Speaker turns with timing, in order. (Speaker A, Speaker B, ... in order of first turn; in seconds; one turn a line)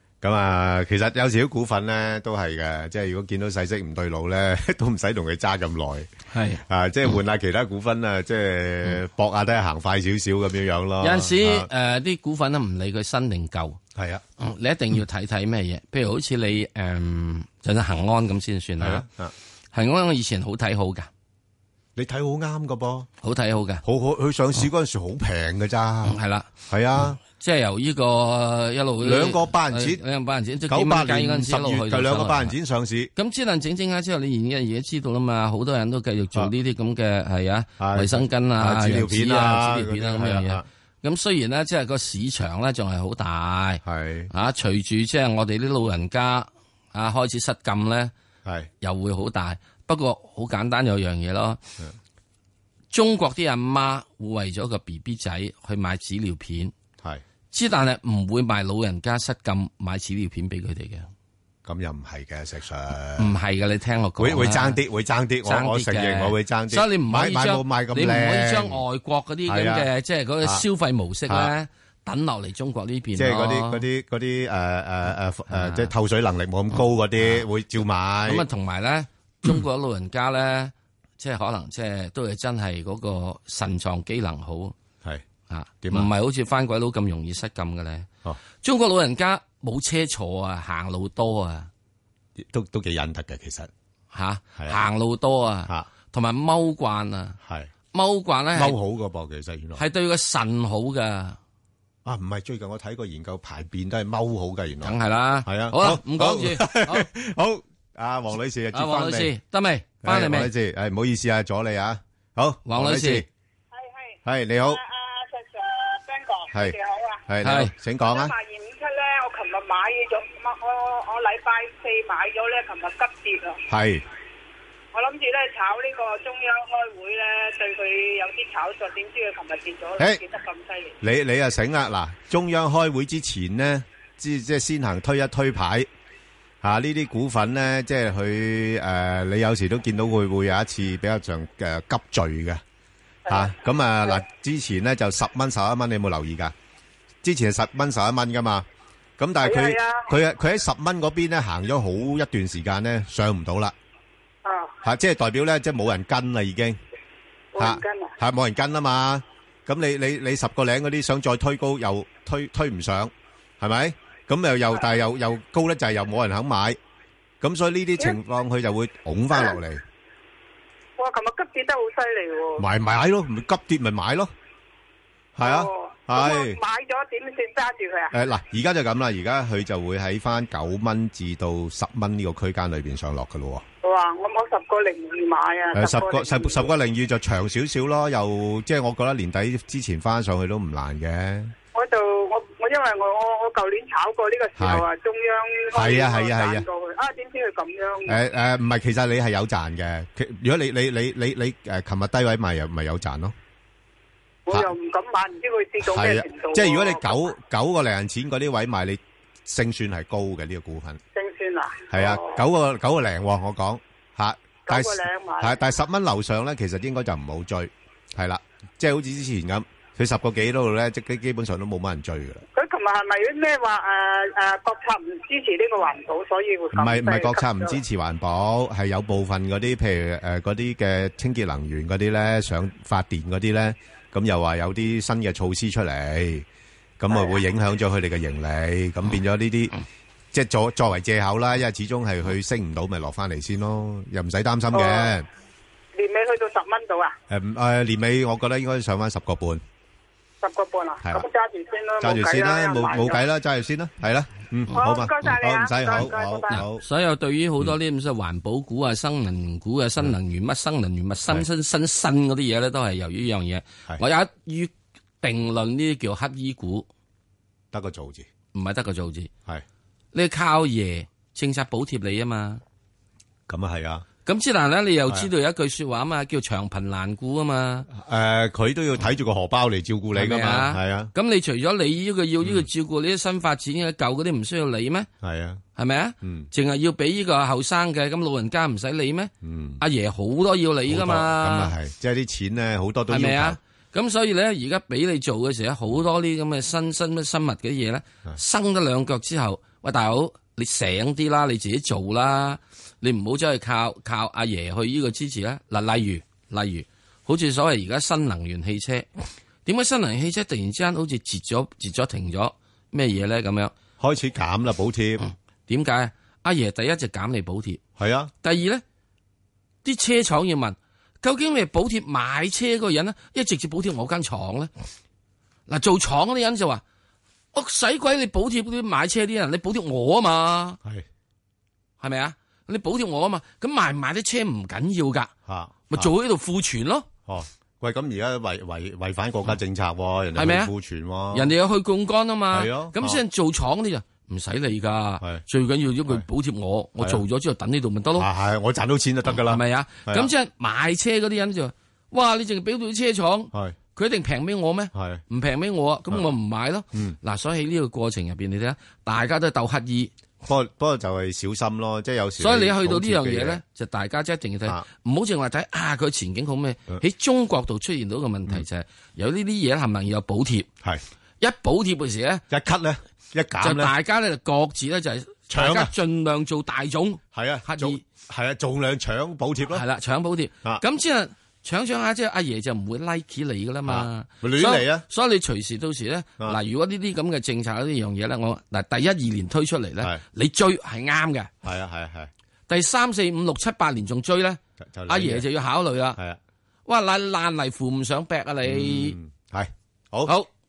Speaker A: 0.2-6.1
Speaker B: 6.3-7.2
Speaker A: 6.7-11.7
Speaker B: 11.0-13.8
Speaker A: 13.9-14.2
Speaker B: 14.4-19.0
Speaker A: 18.8-19.3
Speaker B: 19.7-21.1
Speaker A: 21.9-23.1
Speaker B: 23.2-23.8
Speaker A: 23.8-26.2
Speaker B: 26.0-32.5
Speaker A: 26.7-27.2
Speaker A: 29.0-30.0
Speaker A: 30.7-33.1
Speaker B: 33.2-48.1
Speaker A: 37.8-40.6
Speaker A: 43.8-44.3
Speaker B: 48.8-51.6
Speaker B: 52.9-56.7
Speaker B: 57.5-61.1
Speaker A: 61.6-63.3
Speaker B: 63.2-64.8
Speaker A: 64.2-68.8
Speaker B: 65.4-73.8
Speaker A: 69.5-69.9
Speaker A: 73.2-78.4
Speaker B: 75.5-75.9
Speaker B: 77.2-77.5
Speaker B: 78.2-84.7
Speaker B: 85.5-88.1
Speaker A: 85.8-86.1
Speaker B: 88.6-91.7
Speaker A: 92.4-93.7
Speaker B: 94.1-97.4
Speaker A: 94.6-94.8
Speaker A: 97.4-97.7
Speaker B: 97.9-98.8
Speaker A: 98.5-99.8
Speaker B: 99.8-101.4
Speaker A: 102.0-104.9
Speaker B: 104.8-107.0
Speaker A: 105.5-109.3
Speaker B: 108.7-110.5
Speaker A: 110.0-113.2
Speaker B: 112.7-113.2
Speaker C: 113.7-117.2
Speaker A: 114.2-114.8
Speaker A: 117.3-118.3
Speaker B: 117.4-117.7
Speaker C: 118.0-123.6
Speaker A: 123.7-124.0
Speaker C: 124.9-130.9
Speaker A: 131.0-135.9
Speaker A: 136.6-142.6
Speaker C: 143.3-143.5
Speaker A: 143.3-146.5
Speaker A: 147.2-148.7
Speaker A: 149.2-153.7
Speaker C: 149.4-150.1
Speaker C: 154.4-154.7
Speaker A: 154.8-156.8
Speaker C: 157.5-158.1
Speaker A: 157.6-166.8
Speaker A: 167.4-169.8
Speaker C: 171.0-172.6
Speaker A: 172.6-174.3
Speaker A: 175.4-176.6
Speaker C: 175.4-178.1
Speaker A: 178.1-183.6
Speaker C: 183.8-186.7
Speaker A: 185.7-191.5
Speaker C: 191.7-198.2
Speaker A: 194.6-194.8
Speaker A: 195.7-196.7
Speaker A: 198.1-203.3
Speaker C: 204.5-207.3
Speaker A: 205.8-211.0
Speaker C: 211.1-212.4
Speaker A: 211.9-222.4
Speaker C: 214.7-215.6
Speaker C: 222.5-227.8
Speaker A: 226.7-236.4
Speaker A: 237.0-239.7
Speaker C: 237.1-237.3
Speaker A: 240.3-245.3
Speaker C: 244.7-245.1
Speaker C: 245.9-247.2
Speaker A: 247.3-249.6
Speaker C: 250.4-253.2
Speaker A: 252.0-256.8
Speaker C: 254.7-256.6
Speaker B: 256.5-266.9
Speaker A: 267.7-268.3
Speaker B: 268.5-269.3
Speaker B: 270.1-272.6
Speaker A: 273.5-274.1
Speaker B: 274.2-277.9
Speaker A: 277.9-281.1
Speaker B: 280.1-285.1
Speaker A: 282.4-282.7
Speaker A: 285.2-285.6
Speaker B: 285.8-291.7
Speaker A: 286.2-286.5
Speaker A: 289.4-289.8
Speaker A: 290.9-293.6
Speaker B: 293.1-309.1
Speaker B: 309.6-313.7
Speaker A: 314.0-315.2
Speaker B: 315.2-317.8
Speaker A: 318.0-318.3
Speaker B: 318.4-318.8
Speaker B: 319.8-324.7
Speaker B: 325.7-326.8
Speaker B: 327.5-330.8
Speaker B: 332.0-335.3
Speaker A: 335.5-336.1
Speaker B: 335.9-337.1
Speaker A: 337.2-341.5
Speaker B: 340.4-340.7
Speaker B: 341.3-348.3
Speaker A: 342.5-343.2
Speaker A: 348.2-350.3
Speaker B: 349.3-360.1
Speaker A: 354.9-355.2
Speaker A: 360.4-363.6
Speaker B: 362.4-370.7
Speaker B: 371.4-372.4
Speaker A: 372.5-373.9
Speaker B: 373.6-378.0
Speaker A: 375.5-375.9
Speaker A: 377.3-379.8
Speaker B: 379.7-391.5
Speaker A: 383.9-385.0
Speaker A: 391.6-392.3
Speaker B: 392.7-396.2
Speaker A: 394.8-395.4
Speaker B: 396.9-399.2
Speaker A: 398.6-400.3